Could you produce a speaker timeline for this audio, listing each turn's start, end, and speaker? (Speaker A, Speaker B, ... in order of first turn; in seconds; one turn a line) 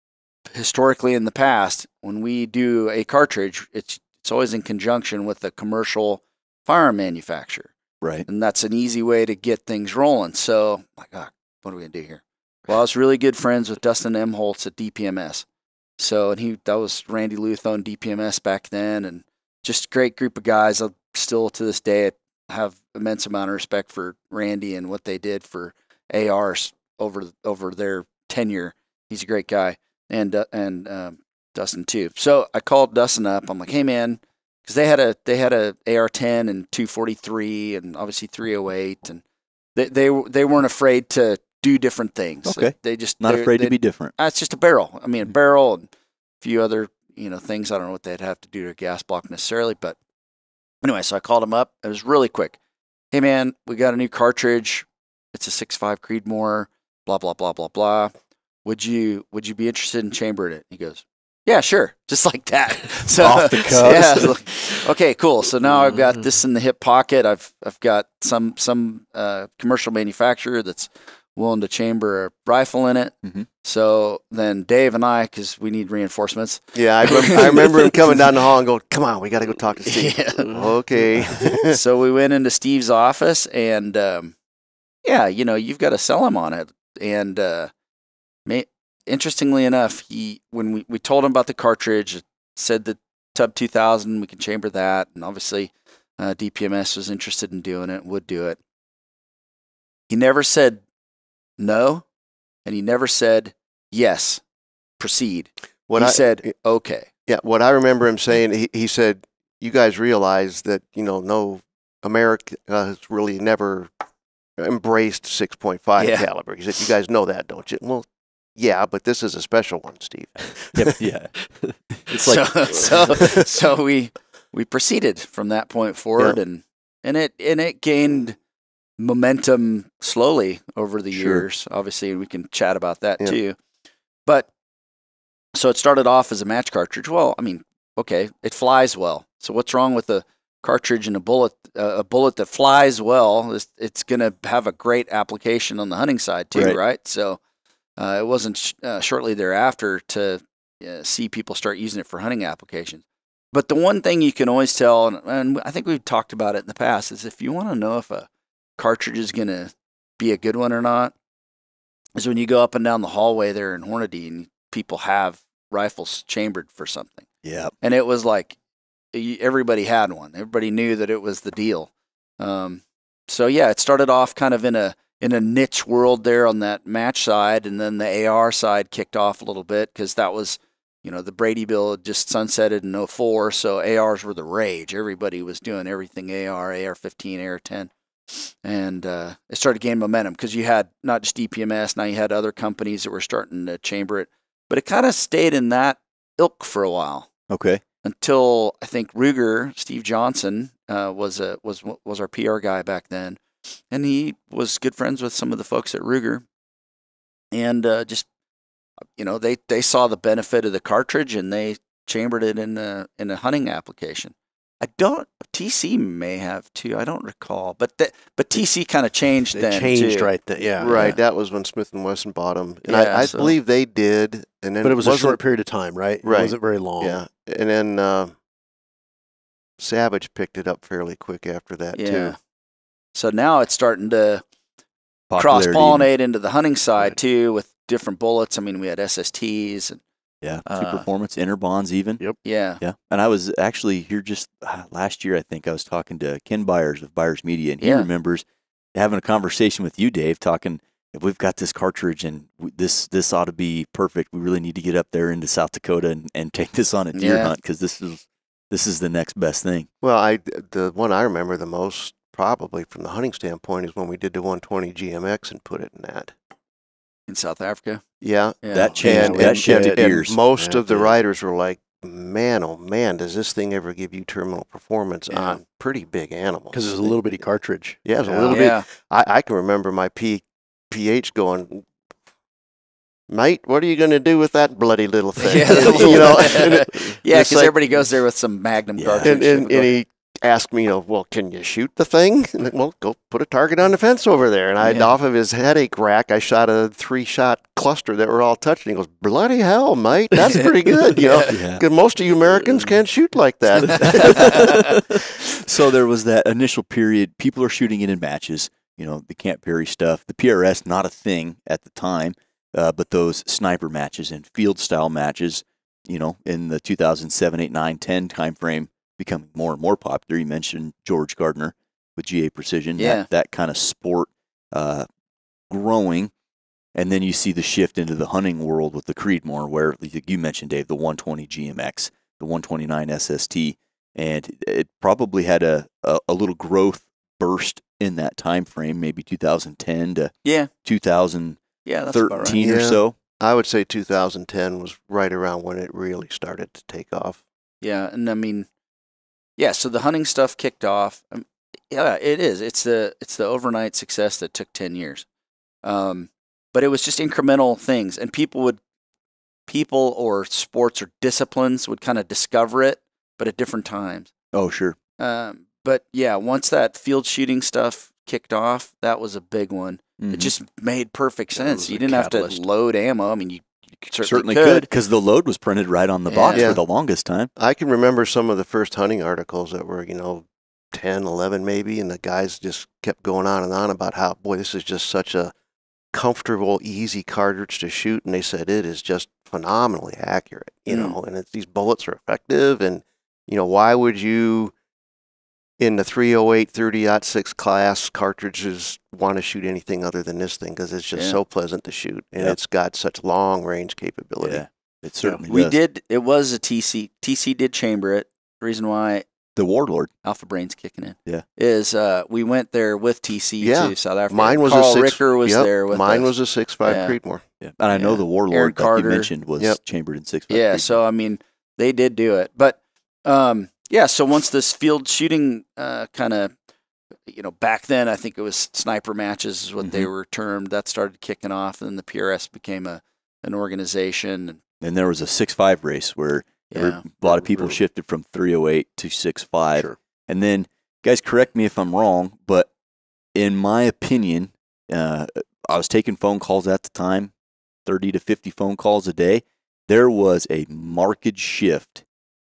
Speaker A: 0.5-7.7
Speaker A: 8.3-15.4
Speaker A: 16.0-39.2
Speaker A: 39.8-45.9
Speaker B: 42.4-44.1
Speaker A: 46.4-50.0
Speaker A: 50.8-52.6
Speaker A: 53.1-58.1
Speaker A: 58.6-78.2
Speaker B: 63.2-64.3
Speaker C: 63.2-64.6
Speaker D: 76.7-81.8
Speaker A: 79.9-80.5
Speaker A: 81.7-84.3
Speaker A: 85.0-87.7
Speaker A: 88.5-98.6
Speaker A: 100.1-100.8
Speaker A: 101.6-102.0
Speaker A: 102.6-104.4
Speaker A: 105.0-107.1
Speaker D: 105.9-106.5
Speaker D: 107.3-113.9
Speaker D: 114.6-118.0
Speaker A: 116.0-116.3
Speaker D: 118.6-120.8
Speaker B: 120.7-121.4
Speaker C: 121.6-122.3
Speaker B: 121.9-122.8
Speaker A: 122.2-128.4
Speaker D: 123.2-123.4
Speaker A: 129.0-133.6
Speaker B: 131.1-131.4
Speaker A: 135.5-147.4
Speaker A: 148.0-161.1
Speaker A: 162.2-167.2
Speaker B: 167.4-167.7
Speaker A: 167.8-168.6
Speaker A: 169.1-197.3
Speaker B: 197.5-197.8
Speaker A: 198.0-206.4
Speaker A: 207.5-208.2
Speaker A: 209.2-221.2
Speaker C: 219.5-221.1
Speaker D: 220.8-225.4
Speaker A: 222.8-223.5
Speaker C: 224.8-227.2
Speaker D: 226.2-228.4
Speaker D: 229.8-232.4
Speaker A: 231.9-232.4
Speaker A: 233.1-234.4
Speaker B: 235.3-236.1
Speaker A: 235.4-240.0
Speaker B: 240.4-242.2
Speaker A: 240.7-241.0
Speaker A: 242.4-242.8
Speaker B: 242.8-248.4
Speaker A: 247.8-248.1
Speaker B: 248.9-259.9
Speaker A: 257.1-257.5
Speaker D: 260.0-266.3
Speaker A: 267.3-268.0
Speaker D: 268.2-277.4
Speaker A: 268.6-268.9
Speaker B: 268.7-270.4
Speaker C: 268.9-271.1
Speaker A: 275.3-275.6
Speaker C: 276.7-278.7
Speaker D: 278.0-281.9
Speaker A: 278.5-278.9
Speaker D: 283.3-287.8
Speaker A: 285.4-289.9
Speaker C: 286.0-286.3
Speaker B: 289.0-289.3
Speaker D: 289.2-305.2
Speaker A: 294.8-295.1
Speaker A: 300.5-301.5
Speaker B: 301.5-301.8
Speaker A: 303.9-304.9
Speaker B: 305.6-325.1
Speaker A: 323.0-323.3
Speaker B: 325.7-326.3
Speaker B: 326.9-340.3
Speaker A: 340.4-340.7
Speaker B: 340.8-341.6
Speaker A: 341.9-342.6
Speaker B: 342.1-343.1
Speaker D: 342.6-347.4
Speaker A: 347.8-348.7
Speaker A: 349.6-355.2
Speaker A: 355.8-358.8
Speaker A: 359.7-364.3
Speaker B: 364.5-364.9
Speaker A: 365.2-374.9
Speaker B: 370.2-370.5
Speaker C: 371.5-372.6
Speaker B: 374.2-377.5
Speaker A: 376.3-376.7
Speaker D: 376.5-376.8
Speaker D: 377.6-385.5
Speaker D: 386.1-394.7
Speaker A: 390.9-391.2
Speaker D: 395.8-404.6
Speaker A: 401.1-401.4
Speaker B: 404.4-405.8
Speaker A: 405.5-409.2
Speaker B: 409.6-410.1
Speaker A: 410.2-416.3
Speaker D: 413.6-417.4
Speaker A: 416.9-417.2
Speaker B: 417.6-421.0
Speaker A: 417.9-419.3
Speaker A: 420.5-426.5
Speaker A: 427.3-434.6
Speaker B: 429.8-430.1
Speaker B: 434.8-442.7
Speaker A: 436.7-437.0
Speaker C: 437.2-437.8
Speaker B: 443.4-447.3
Speaker B: 447.9-452.0